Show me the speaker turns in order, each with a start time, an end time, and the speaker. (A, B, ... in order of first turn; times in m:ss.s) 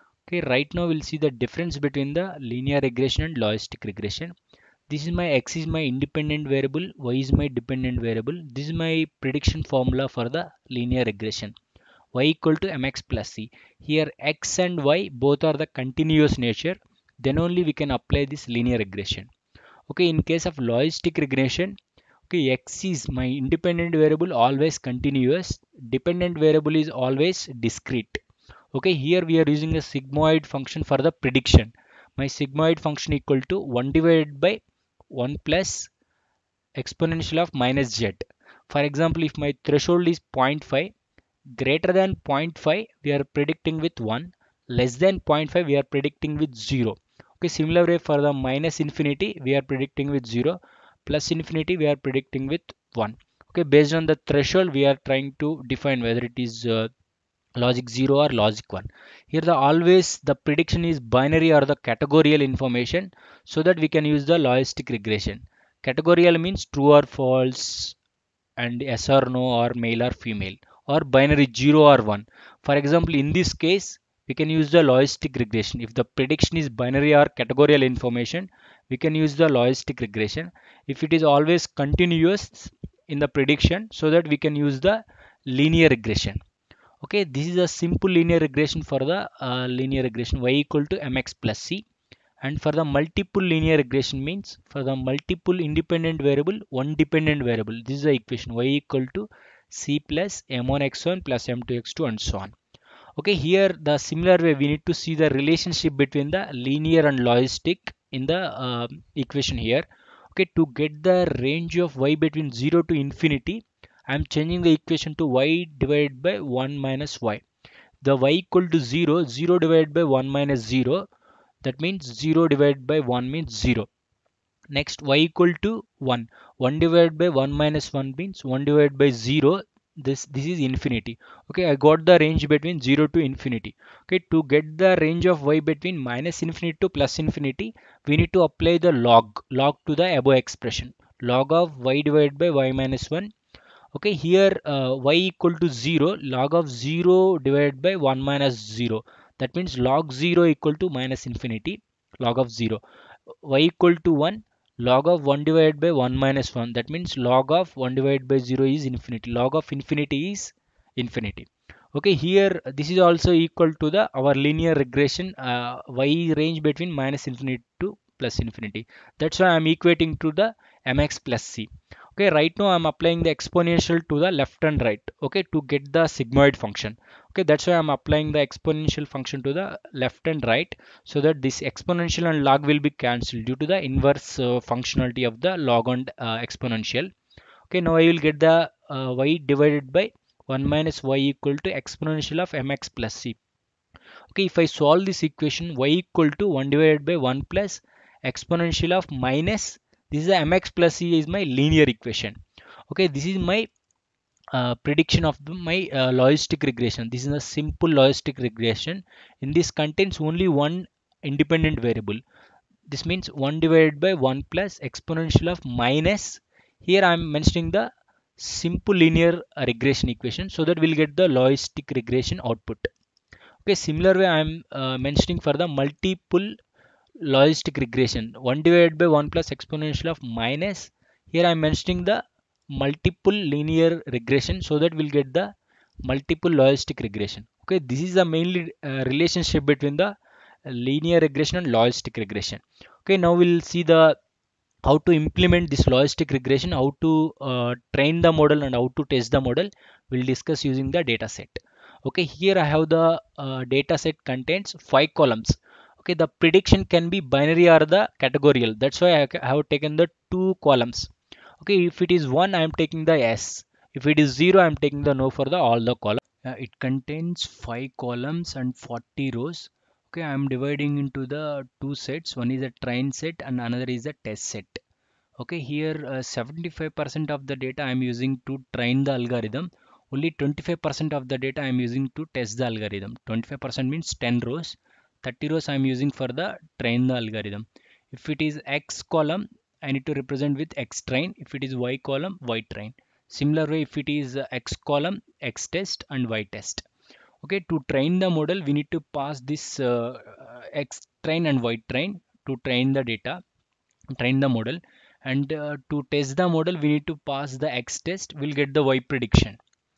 0:00.3-0:04.3 A
0:04.9-0:11.6 A
0:12.1-0:19.3 A
0:19.9-0:21.8 A
0:22.3-0:28.2 A
0:28.7-0:35.9 A
0:36.8-0:40.9 A
0:41.6-0:56.9 A
0:57.6-1:08.0 A
1:08.6-1:26.4 A
1:27.0-1:31.8 A
1:32.4-1:42.6 A
1:43.2-1:57.4 A
1:58.0-2:01.1 A
2:01.6-2:03.9 A
2:04.7-2:23.3 A
2:23.9-2:32.8 A
2:33.4-3:07.1 A
3:07.7-3:13.4 A
3:14.3-3:22.4 A
3:22.9-3:23.7 A
3:24.5-3:32.2 A
3:32.9-3:42.9 A
3:43.6-3:46.6 A
3:47.2-3:55.5 A
3:56.0-4:00.1 A
4:00.6-4:04.2 A
4:04.8-4:34.8 A
4:35.4-4:56.8 A
4:57.4-5:03.4 A
5:04.2-5:09.6 A